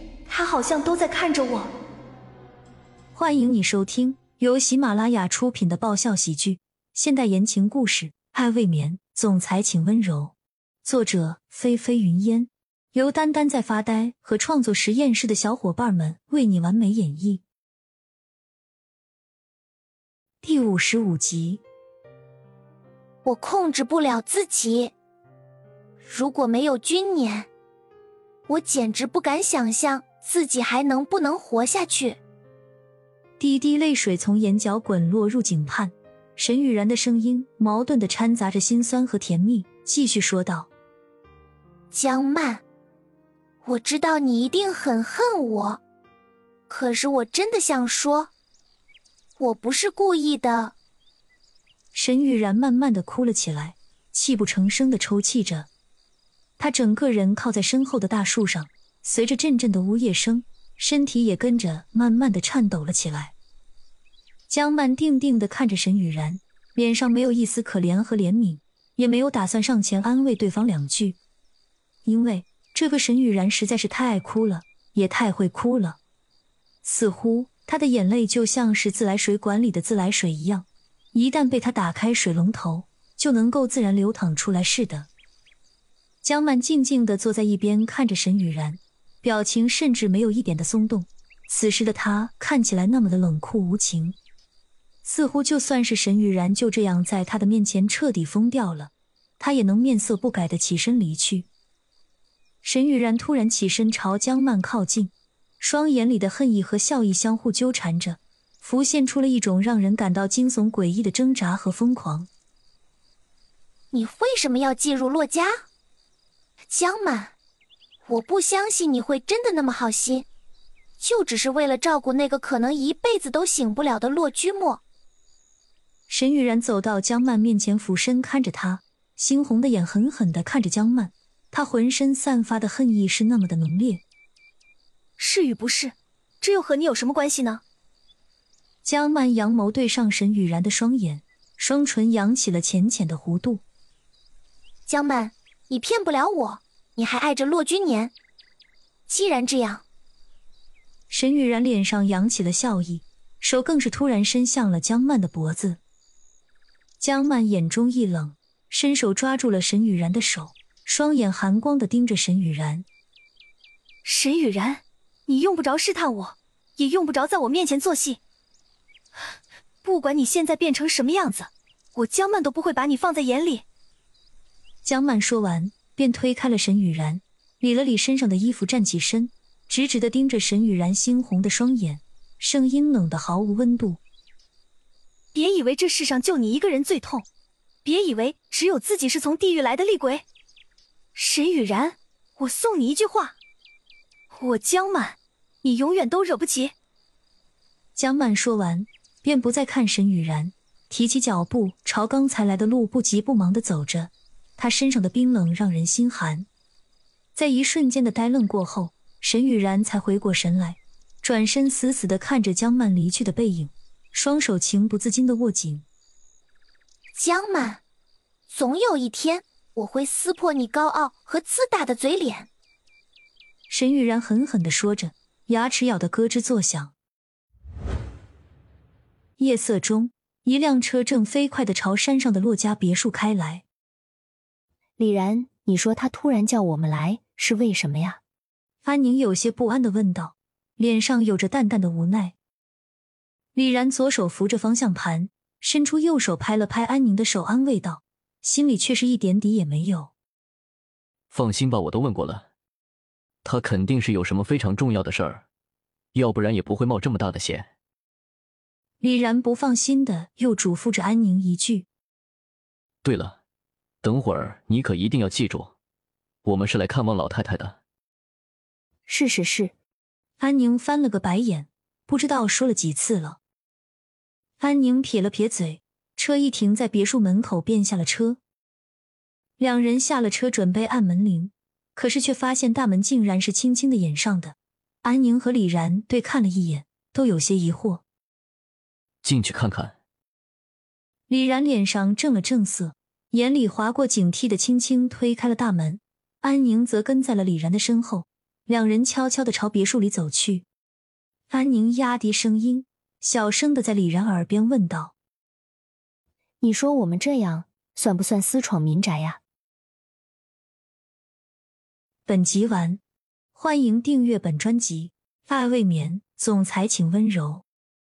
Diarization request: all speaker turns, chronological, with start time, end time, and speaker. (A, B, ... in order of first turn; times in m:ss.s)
0:00.3-0:01.7 A
0:03.1-0:17.4 B
0:20.4-0:21.6 B
0:23.2-0:24.9 C
0:26.0-0:27.5 C
0:28.5-0:32.2 C
0:33.4-0:40.7 B
0:41.9-0:42.6 C
0:43.6-0:45.8 C
0:46.7-0:48.3 C
0:49.4-0:50.8 C
0:51.9-0:55.7 B
0:56.6-1:03.3 B
1:04.5-1:11.2 B
1:12.0-1:16.0 B
1:16.8-1:25.1 B
1:26.2-1:34.2 B
1:35.0-1:41.5 B
1:42.6-1:52.3 B
1:53.9-1:55.6 C
1:56.7-1:57.3 C
1:58.1-2:00.2 C
2:01.0-2:04.8 C
2:06.1-2:14.0 B
2:15.2-2:17.6 A
2:18.8-2:23.6 B
2:24.9-2:28.1 C
2:29.1-2:29.8 C
2:31.1-2:35.8 B
2:37.0-2:42.8 B
2:44.0-2:48.2 A
2:49.8-2:53.6 A
2:54.8-3:04.0 B
3:05.3-3:07.2 A
3:07.8-3:10.2 A
3:11.1-3:13.3 A
3:14.3-3:16.7 A
3:17.9-3:26.5 B
3:27.3-3:35.8 B
3:37.1-3:37.8 C
3:38.5-3:42.5 C
3:43.7-3:46.9 B
3:49.4-3:53.6 B
3:55.0-3:58.2 D
3:58.8-4:02.3 B
4:03.6-4:10.1 B
4:11.3-4:12.5 E
4:13.4-4:15.4 E
4:16.1-4:17.7 E
4:19.0-4:21.9 B
4:23.0-4:23.4 E
4:24.0-4:25.7 E
4:26.4-4:27.8 E
4:29.1-4:29.7 D
4:30.4-4:33.4 B
4:34.6-4:38.4 B
4:39.6-4:48.0 B
4:49.2-4:50.0 E
4:51.3-5:00.7 B
5:01.5-5:05.1 B
5:06.6-5:09.4 D
5:12.3-5:13.0 B
5:13.6-5:17.6 B